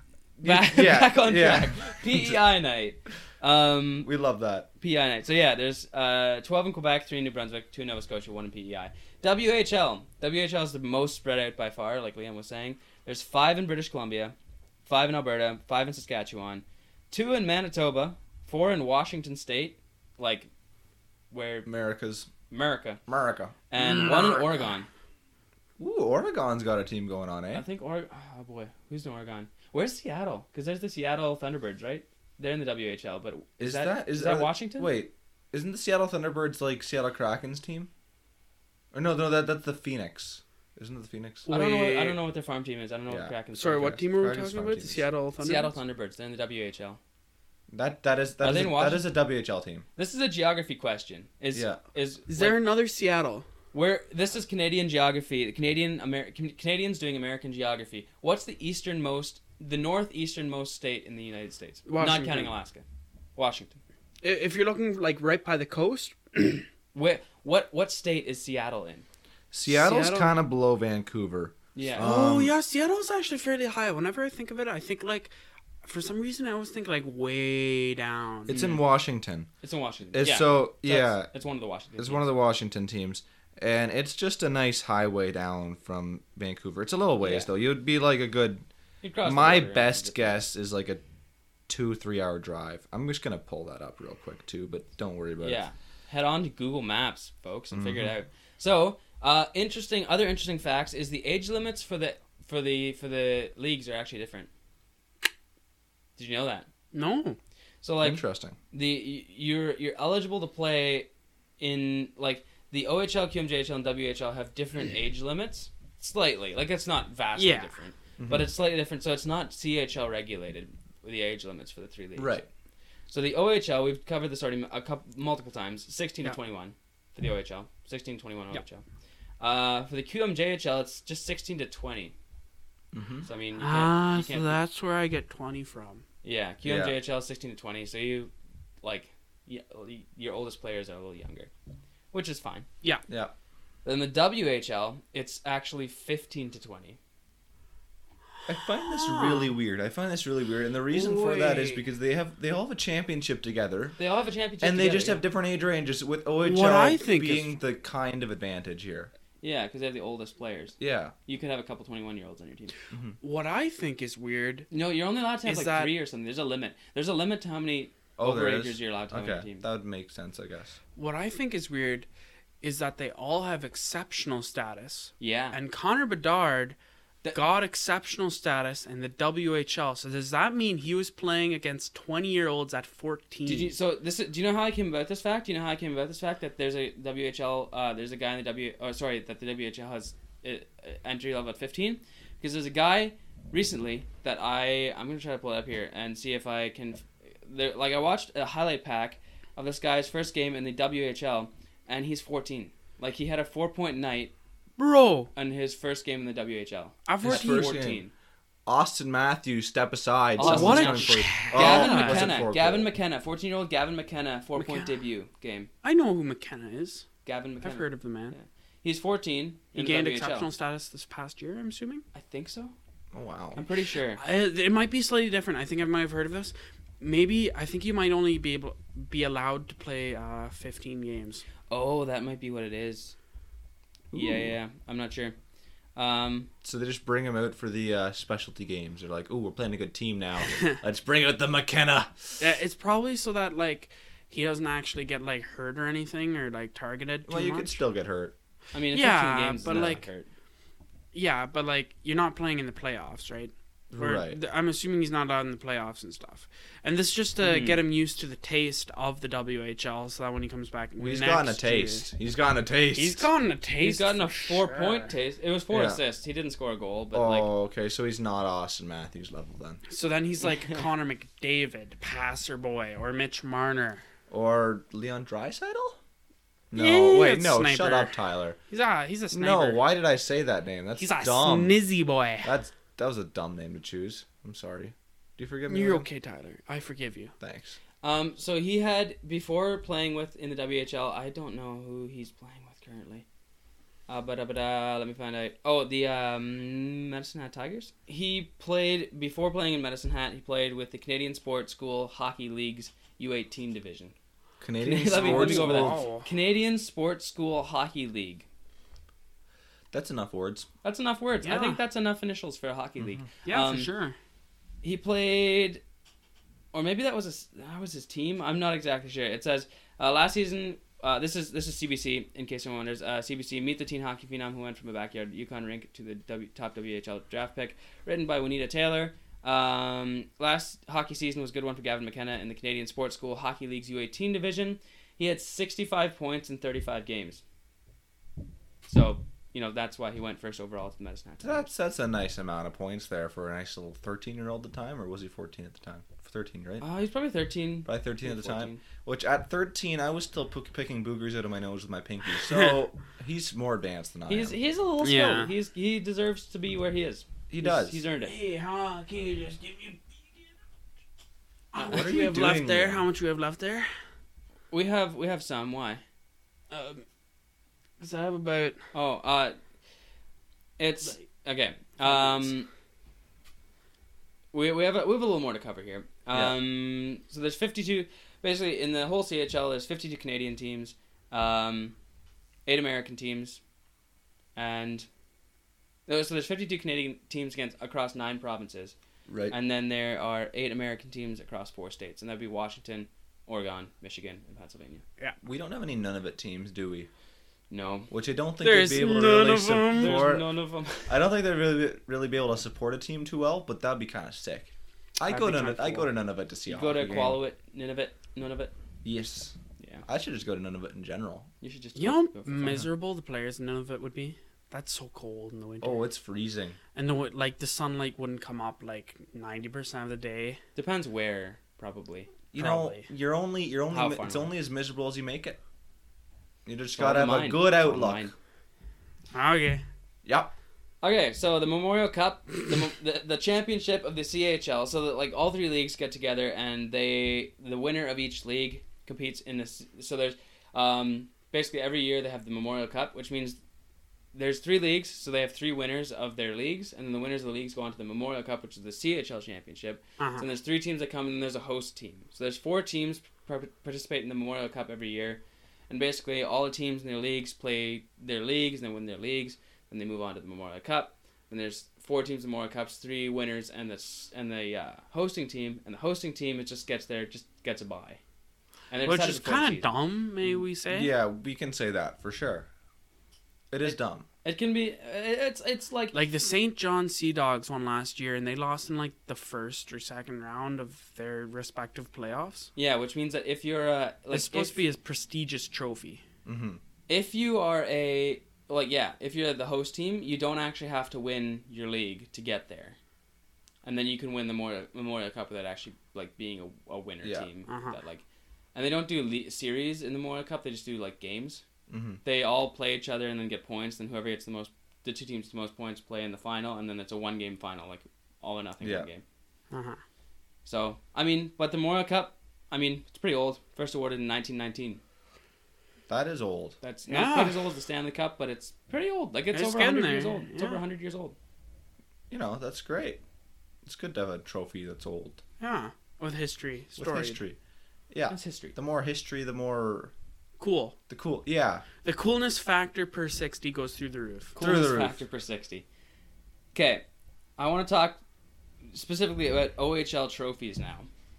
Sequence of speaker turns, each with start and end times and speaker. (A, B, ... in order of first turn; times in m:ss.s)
0:00.4-0:04.1 A
0:00.4-0:02.4 B
0:04.0-0:04.7 B
0:04.8-0:14.4 A
0:14.9-0:20.5 A
0:21.3-0:21.7 A
0:21.6-0:22.3 B
0:22.5-0:23.0 A
0:23.1-0:23.6 B
0:23.7-0:24.9 A
0:23.8-0:24.4 C
0:25.8-0:27.6 B
0:27.5-0:34.9 A
0:33.6-0:37.9 B
0:38.9-0:41.5 B
0:41.5-0:42.2 C
0:41.5-0:44.0 A
0:43.1-0:45.1 B
0:43.6-0:45.8 C
0:45.4-0:47.0 A
0:47.7-0:49.9 B
0:48.4-0:49.1 A
0:50.0-0:52.6 A
0:51.5-0:51.8 B
0:52.3-0:53.4 C
0:53.7-1:02.8 A
1:01.9-1:02.6 C
1:03.4-1:03.8 A
1:04.2-1:06.7 C
1:06.9-1:09.0 A
1:09.5-1:12.5 B
1:09.6-1:10.4 C
1:11.8-1:12.1 A
1:12.0-1:15.3 C
1:15.8-1:18.6 C
1:18.5-1:19.5 B
1:18.5-1:18.8 A
1:19.6-1:22.3 A
1:20.1-1:21.3 B
1:22.0-1:28.6 B
1:27.2-1:27.5 A
1:29.0-1:30.4 A
1:29.2-1:31.0 B
1:31.7-1:35.6 B
1:35.4-1:44.5 A
1:37.7-1:38.1 B
1:46.2-1:46.7 A
1:46.9-1:47.4 C
1:47.8-1:51.1 A
1:48.0-1:48.6 B
1:51.6-2:02.4 A
1:57.4-1:57.7 C
1:58.2-1:58.5 B
2:02.2-2:02.5 B
2:03.1-2:08.8 A
2:09.4-2:12.1 A
2:12.9-2:13.3 B
2:13.2-2:14.6 A
2:13.6-2:16.0 C
2:16.2-2:21.5 A
2:16.6-2:16.9 B
2:22.1-2:22.6 A
2:23.1-2:23.3 B
2:23.8-2:27.0 A
2:28.4-2:34.0 B
2:28.8-2:29.5 C
2:30.9-2:31.8 C
2:34.0-2:35.2 A
2:34.6-2:39.1 B
2:36.4-2:37.6 C
2:39.4-2:42.8 A
2:40.8-2:41.1 B
2:42.9-2:43.2 B
2:43.2-2:44.7 C
2:44.7-2:49.6 A
2:45.4-2:45.9 C
2:48.2-2:50.8 B
2:51.0-2:52.1 C
2:52.6-2:56.8 C
2:55.2-2:55.6 A
2:57.3-3:03.7 C
3:03.4-3:24.3 A
3:24.8-3:25.3 C
3:25.4-3:28.1 A
3:27.1-3:27.8 C
3:27.2-3:28.0 B
3:28.6-3:32.9 B
3:30.4-3:35.7 A
3:30.4-3:32.4 C
3:34.6-3:34.9 C
3:35.8-3:37.1 C
3:37.2-3:40.5 A
3:37.6-3:38.4 C
3:39.8-3:42.0 C
3:42.1-3:42.8 A
3:43.1-3:43.6 B
3:43.6-3:44.2 A
3:44.2-3:51.4 C
3:51.7-3:53.1 A
3:54.1-3:54.5 B
3:54.1-3:55.4 A
3:56.0-3:56.5 A
3:56.6-4:02.4 B
4:02.4-4:07.8 C
4:07.3-4:08.3 B
4:08.7-4:10.3 A
4:08.9-4:10.1 C
4:11.1-4:22.1 C
4:13.9-4:14.4 B
4:17.4-4:17.8 A
4:21.0-4:23.3 B
4:23.0-4:25.1 C
4:23.8-4:27.5 A
4:25.7-4:26.0 B
4:27.1-4:29.8 B
4:29.9-4:34.0 C
4:34.3-4:36.0 B
4:36.7-4:38.6 B
4:36.7-4:38.1 C
4:38.7-4:39.8 C
4:39.3-4:41.8 B
4:41.0-4:42.5 C
4:42.4-4:46.1 B
4:45.7-4:47.3 C
4:47.4-4:47.8 B
4:48.0-4:53.3 A
4:54.1-5:04.1 A
5:04.6-5:06.0 B
5:04.8-5:08.4 A
5:05.1-5:06.3 C
5:09.9-5:10.7 B
5:10.8-5:13.9 A
5:11.4-5:11.8 C
5:13.0-5:13.3 B
5:13.4-5:14.2 C
5:14.8-5:15.8 A
5:16.7-5:37.4 A
5:38.9-5:41.7 A
5:41.4-5:46.8 B
5:46.8-5:48.8 A
5:47.8-5:54.6 B
5:54.3-5:58.4 A
5:55.0-5:55.5 C
5:57.5-5:58.0 B
5:58.2-6:00.4 C
6:01.7-6:03.9 C
6:01.8-6:03.1 B
6:04.7-6:06.0 A
6:06.7-6:07.0 C
6:08.0-6:08.8 C
6:08.9-6:09.6 A
6:10.8-6:12.7 A
6:12.0-6:12.5 C
6:14.5-6:22.0 A
6:22.7-6:23.6 A
6:24.6-6:25.1 A
6:26.1-6:29.0 A
6:29.3-6:29.6 B
6:29.5-6:35.0 A
6:35.4-6:37.1 B
6:37.7-6:38.1 A
6:38.1-6:40.5 B
6:38.6-6:40.3 C
6:39.9-6:41.1 A
6:41.0-6:47.4 B
6:45.3-6:46.1 C
6:46.7-6:48.7 A
6:49.0-6:49.5 B
6:49.8-6:50.0 A
6:50.0-6:51.5 B
6:51.6-6:52.9 A
6:52.0-6:56.0 C
6:55.8-6:56.8 B
6:57.0-7:00.6 C
7:00.8-7:02.3 A
7:02.5-7:05.6 B
7:02.6-7:03.0 C
7:03.9-7:04.5 A
7:06.7-7:08.3 B
7:07.0-7:08.3 A
7:09.3-7:09.8 C
7:10.2-7:10.5 B
7:11.0-7:23.6 A
7:24.3-7:48.2 A
7:30.2-7:30.4 C
7:48.9-7:49.9 A
7:49.0-7:51.1 C
7:50.9-7:52.7 B
7:53.7-7:54.2 B
7:53.8-7:56.2 A
7:56.1-8:02.7 C
8:02.8-8:04.8 A
8:04.3-8:06.2 C
8:06.4-8:06.8 B
8:07.1-8:13.0 A
8:13.8-8:18.2 A
8:17.2-8:17.5 B
8:17.7-8:18.0 C
8:18.7-8:21.6 A
8:21.9-8:22.2 B
8:22.2-8:29.2 A
8:28.8-8:29.1 B
8:29.7-8:30.0 C
8:30.6-8:35.0 A
8:36.1-8:36.8 B
8:36.8-8:41.4 A
8:37.1-8:37.6 C
8:39.5-8:40.8 C
8:42.3-8:43.2 B
8:43.8-8:45.4 B
8:45.6-8:47.4 C
8:47.0-8:47.6 B
8:48.1-8:50.1 B
8:48.3-8:48.7 A
8:50.6-8:51.0 C
8:51.1-8:51.8 B
8:52.0-8:54.6 C
8:54.6-8:55.8 A
8:54.6-8:55.2 B
8:56.7-8:57.0 A
8:57.6-8:58.2 A
8:58.9-9:01.1 A